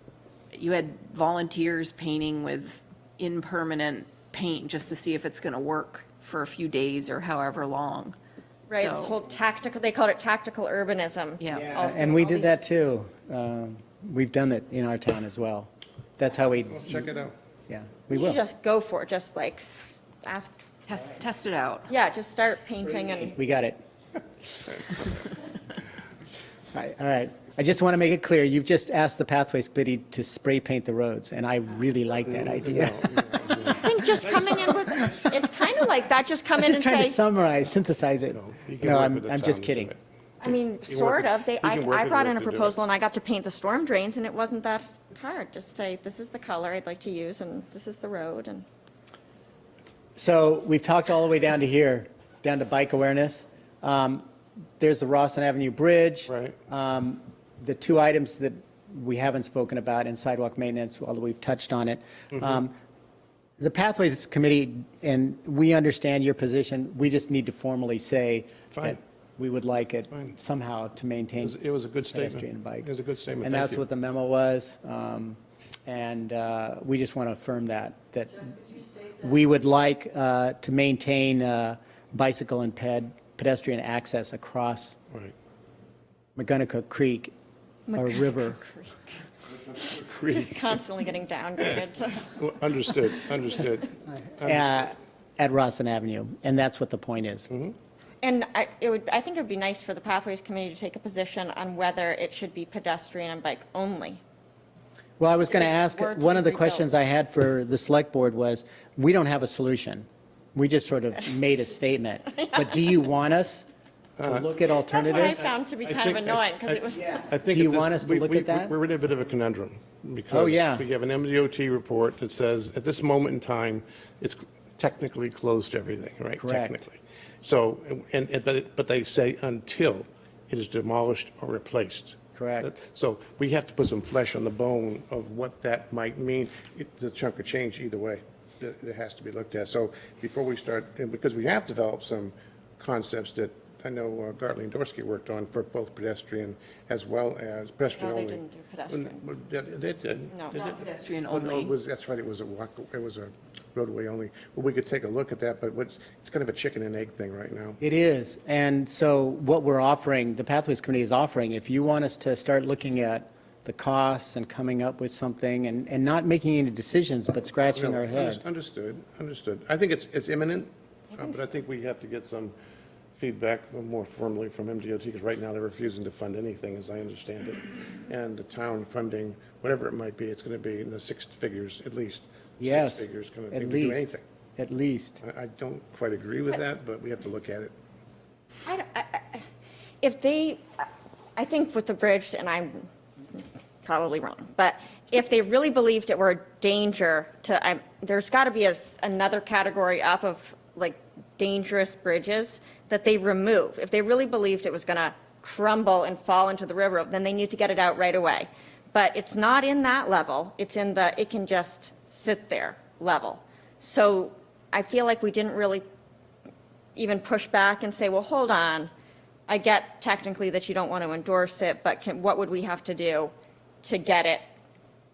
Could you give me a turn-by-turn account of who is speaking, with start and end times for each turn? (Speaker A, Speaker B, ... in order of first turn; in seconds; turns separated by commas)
Speaker A: 0.5-8.1, Speaker A: 8.7-9.1, Speaker B: 8.7-12.6, Speaker A: 11.4-11.8, Speaker C: 11.5-17.1, Speaker D: 16.7-17.3, Speaker C: 17.7-18.4, Speaker B: 18.1-20.8, Speaker A: 20.9-21.9, Speaker B: 21.9-23.4, Speaker C: 23.3-23.8, Speaker C: 26.7-33.2, Speaker D: 32.3-33.9, Speaker B: 33.8-37.2, Speaker C: 35.0-35.3, Speaker C: 36.5-39.9, Speaker D: 38.3-42.8, Speaker B: 40.4-48.6, Speaker C: 50.1-54.3, Speaker C: 54.8-62.7, Speaker D: 56.3-56.5, Speaker C: 63.6-71.6, Speaker D: 68.7-69.0, Speaker D: 71.4-73.8, Speaker C: 72.1-72.9, Speaker C: 73.4-85.0, Speaker C: 86.3-87.3, Speaker B: 87.9-89.2, Speaker C: 87.9-88.6, Speaker D: 89.7-90.8, Speaker B: 89.8-92.3, Speaker D: 92.3-94.8, Speaker C: 94.2-97.5, Speaker D: 97.5-97.7, Speaker B: 98.2-104.2, Speaker C: 105.2-113.7, Speaker B: 105.5-106.8, Speaker D: 114.2-114.5, Speaker C: 114.2-115.5, Speaker B: 114.9-117.3, Speaker D: 115.1-157.8, Speaker C: 117.5-118.7, Speaker C: 120.3-120.8, Speaker C: 126.4-126.8, Speaker C: 132.3-132.7, Speaker B: 147.9-149.2, Speaker B: 150.3-150.7, Speaker A: 150.7-151.7, Speaker C: 157.8-168.4, Speaker D: 167.7-172.5, Speaker D: 173.1-184.2, Speaker C: 182.6-185.2, Speaker D: 185.2-187.7, Speaker B: 188.7-189.4, Speaker B: 190.0-215.8, Speaker B: 216.9-218.9, Speaker B: 219.5-224.4